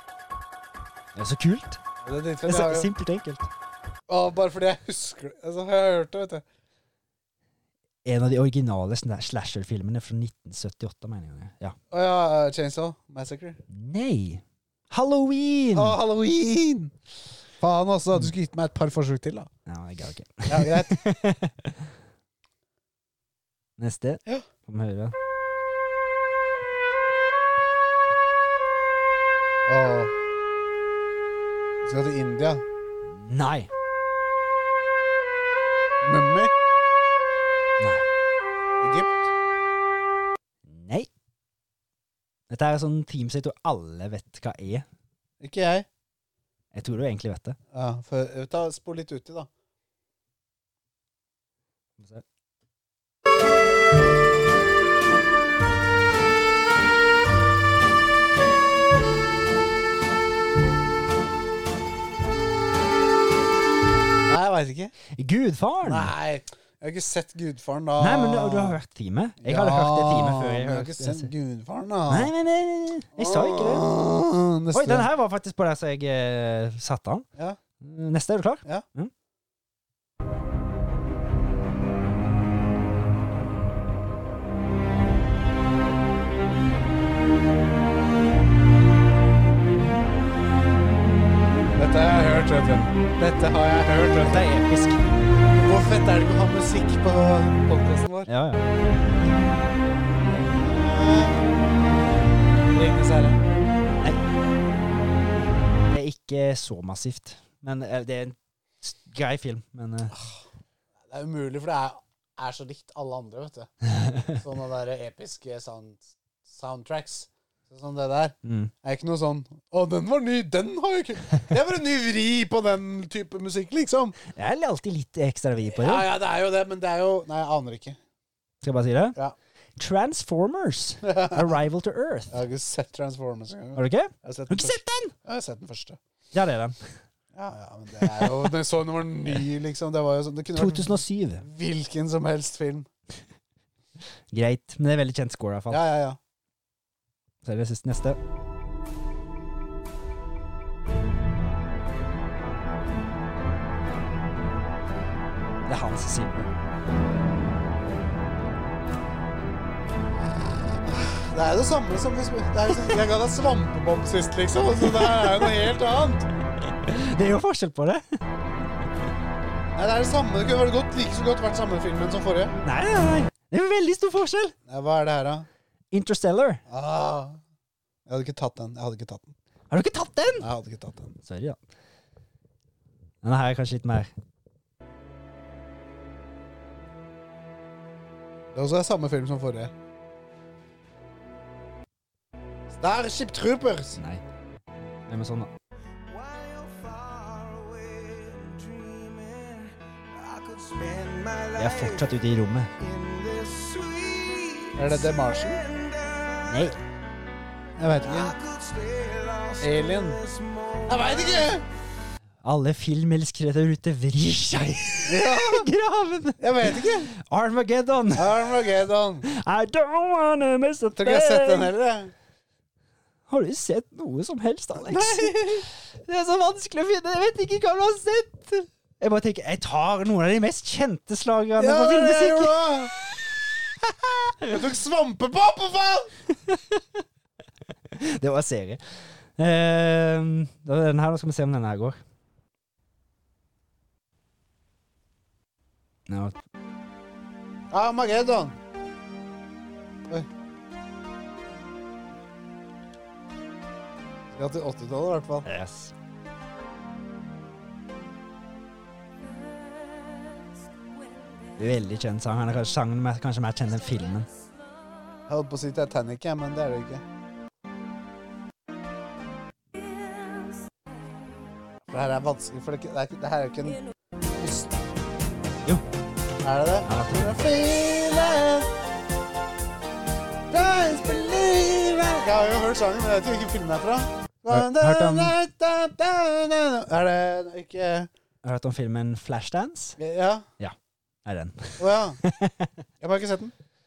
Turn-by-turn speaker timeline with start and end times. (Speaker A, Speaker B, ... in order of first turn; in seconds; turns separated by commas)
Speaker A: 1.2-1.8, Speaker B: 2.0-2.9, Speaker A: 2.5-3.5, Speaker B: 4.1-6.4, Speaker A: 8.1-11.8, Speaker B: 11.9-13.6, Speaker A: 13.7-16.0, Speaker B: 15.7-16.9, Speaker B: 17.6-19.5, Speaker A: 19.7-21.9, Speaker B: 20.5-21.0, Speaker A: 23.8-25.1, Speaker B: 29.7-30.1, Speaker B: 31.8-32.6, Speaker A: 33.1-33.7, Speaker B: 36.0-36.5, Speaker A: 37.8-38.1, Speaker B: 38.8-39.2, Speaker A: 40.7-41.1, Speaker A: 42.5-44.9, Speaker B: 45.4-45.9, Speaker A: 46.7-47.6, Speaker B: 47.7-49.5, Speaker A: 52.0-52.2, Speaker B: 64.3-65.0, Speaker A: 65.2-66.1, Speaker B: 65.8-68.8, Speaker A: 68.0-71.3, Speaker B: 69.4-72.3, Speaker A: 72.1-73.9, Speaker B: 73.2-75.1, Speaker A: 74.7-77.3, Speaker A: 77.8-79.1, Speaker B: 91.8-94.5, Speaker A: 94.2-95.1, Speaker B: 95.6-98.3, Speaker A: 98.3-98.7, Speaker B: 100.5-102.0, Speaker B: 102.7-103.4, Speaker A: 105.9-110.2, Speaker B: 110.1-110.4, Speaker B: 111.1-113.7, Speaker A: 113.8-114.4, Speaker B: 114.3-124.2, Speaker A: 118.4-118.7, Speaker A: 124.3-126.1, Speaker B: 125.7-128.0, Speaker A: 128.6-129.2, Speaker A: 129.8-132.4, Speaker B: 131.0-131.6, Speaker B: 132.3-136.0, Speaker A: 133.8-135.1, Speaker A: 136.3-136.8, Speaker B: 137.3-142.9, Speaker A: 138.0-138.5, Speaker A: 140.6-141.4, Speaker A: 144.3-145.8, Speaker B: 145.7-146.2, Speaker A: 147.4-148.2, Speaker A: 155.7-156.5, Speaker B: 160.8-166.3, Speaker A: 164.9-165.5, Speaker A: 166.8-168.0, Speaker B: 169.8-172.6, Speaker A: 172.6-174.6, Speaker B: 174.7-175.5, Speaker A: 175.9-176.6, Speaker B: 176.7-177.4, Speaker B: 178.1-179.3, Speaker A: 179.7-180.5, Speaker B: 180.4-181.2, Speaker A: 181.2-181.6, Speaker A: 183.2-184.1, Speaker B: 188.5-189.7, Speaker B: 192.7-194.0, Speaker A: 194.0-194.2, Speaker A: 195.1-195.5, Speaker C: 196.1-206.8, Speaker A: 201.6-202.7, Speaker B: 204.8-205.6, Speaker A: 206.4-206.8, Speaker B: 207.8-208.3, Speaker C: 208.0-211.6, Speaker B: 209.6-210.2, Speaker B: 210.9-211.7, Speaker A: 212.4-218.5, Speaker B: 215.1-215.7, Speaker B: 216.4-217.1, Speaker B: 218.2-219.3, Speaker A: 219.2-221.7, Speaker B: 220.9-222.1, Speaker A: 223.3-232.9, Speaker B: 224.8-225.7, Speaker B: 231.6-232.9, Speaker B: 233.8-236.1, Speaker A: 236.3-236.8, Speaker A: 237.9-242.0, Speaker A: 246.1-246.4, Speaker B: 247.7-248.6, Speaker B: 254.3-255.5, Speaker A: 255.4-255.9, Speaker C: 261.1-261.5, Speaker A: 261.6-264.3, Speaker B: 265.3-267.0, Speaker C: 270.2-270.5, Speaker B: 271.9-273.8, Speaker B: 274.4-274.8, Speaker B: 276.4-278.8, Speaker A: 276.9-277.4, Speaker B: 280.5-288.1, Speaker A: 284.5-285.4, Speaker A: 288.4-290.0, Speaker B: 290.0-290.5, Speaker A: 290.6-292.7, Speaker B: 291.8-292.2, Speaker B: 293.0-293.5